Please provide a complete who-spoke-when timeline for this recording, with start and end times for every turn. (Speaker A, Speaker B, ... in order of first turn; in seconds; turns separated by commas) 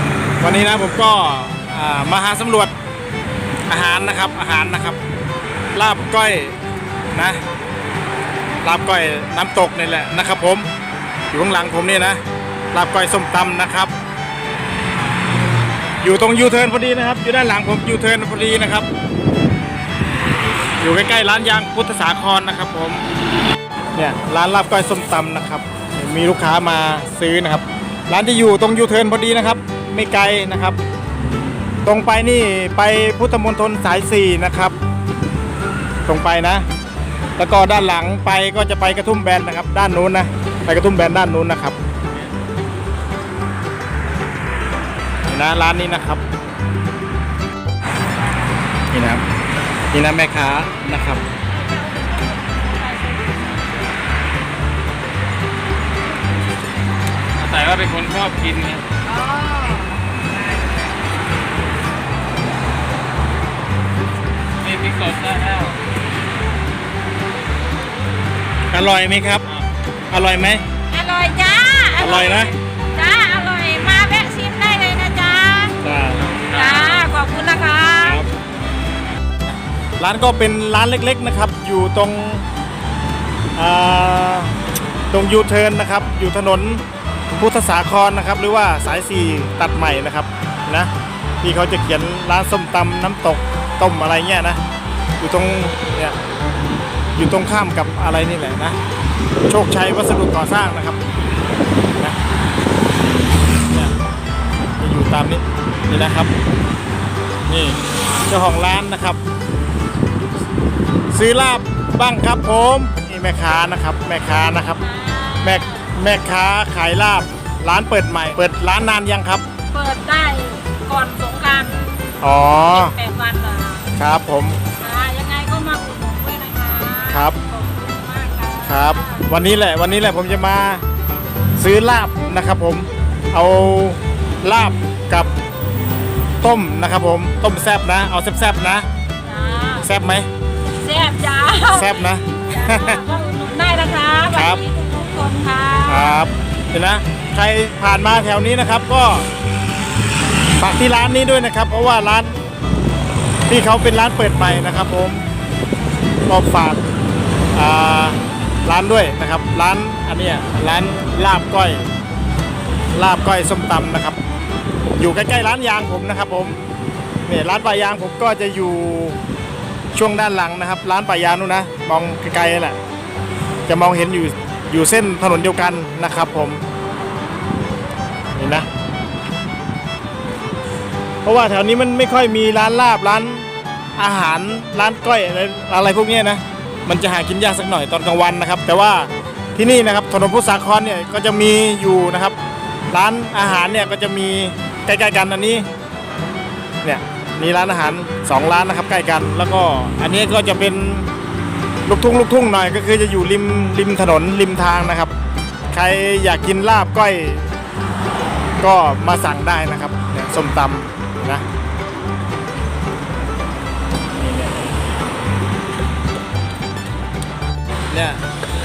Speaker A: 0.4-2.7, Speaker A: 3.7-5.0, Speaker A: 5.7-6.5, Speaker A: 7.1-7.4, Speaker A: 8.6-10.7, Speaker A: 11.3-12.2, Speaker A: 12.7-13.9, Speaker A: 16.0-18.9, Speaker A: 20.8-23.0, Speaker A: 23.9-30.8, Speaker A: 31.8-34.7, Speaker A: 36.0-36.6, Speaker A: 37.4-41.8, Speaker A: 45.2-46.2, Speaker A: 48.9-49.2, Speaker A: 49.9-51.2, Speaker B: 51.5-53.6, Speaker C: 57.4-58.8, Speaker B: 59.1-60.0, Speaker C: 64.6-65.8, Speaker A: 68.7-70.7, Speaker B: 70.9-75.8, Speaker A: 72.0-72.5, Speaker A: 75.8-76.5, Speaker B: 76.5-78.2, Speaker A: 78.0-78.3, Speaker A: 80.0-82.4, Speaker A: 83.5-84.5, Speaker A: 85.1-94.6, Speaker A: 95.2-96.2, Speaker A: 97.1-98.8, Speaker A: 99.5-101.0, Speaker A: 104.8-106.3, Speaker A: 107.5-109.2, Speaker A: 111.1-114.8, Speaker B: 114.8-115.9, Speaker A: 115.4-119.4, Speaker B: 119.7-121.9, Speaker A: 122.2-123.0, Speaker B: 122.7-123.9, Speaker A: 123.9-124.6, Speaker B: 124.8-129.3, Speaker A: 127.1-127.3, Speaker A: 128.6-130.8, Speaker A: 131.6-135.3, Speaker A: 136.4-138.8, Speaker B: 139.2-139.9, Speaker A: 139.8-140.3, Speaker B: 140.8-146.2, Speaker A: 141.7-143.0, Speaker A: 144.3-144.6, Speaker A: 145.9-149.3, Speaker A: 150.6-152.4, Speaker A: 153.5-155.2, Speaker A: 156.3-156.8, Speaker A: 157.5-161.9, Speaker A: 162.9-164.2, Speaker A: 164.9-166.6, Speaker A: 167.2-169.2, Speaker A: 169.9-172.8, Speaker A: 173.7-176.6, Speaker A: 178.3-178.7, Speaker A: 181.2-192.4, Speaker A: 192.9-195.7, Speaker A: 196.8-201.1, Speaker A: 201.8-205.1, Speaker A: 205.7-207.5, Speaker A: 208.6-211.4, Speaker A: 214.2-214.7, Speaker A: 217.9-218.2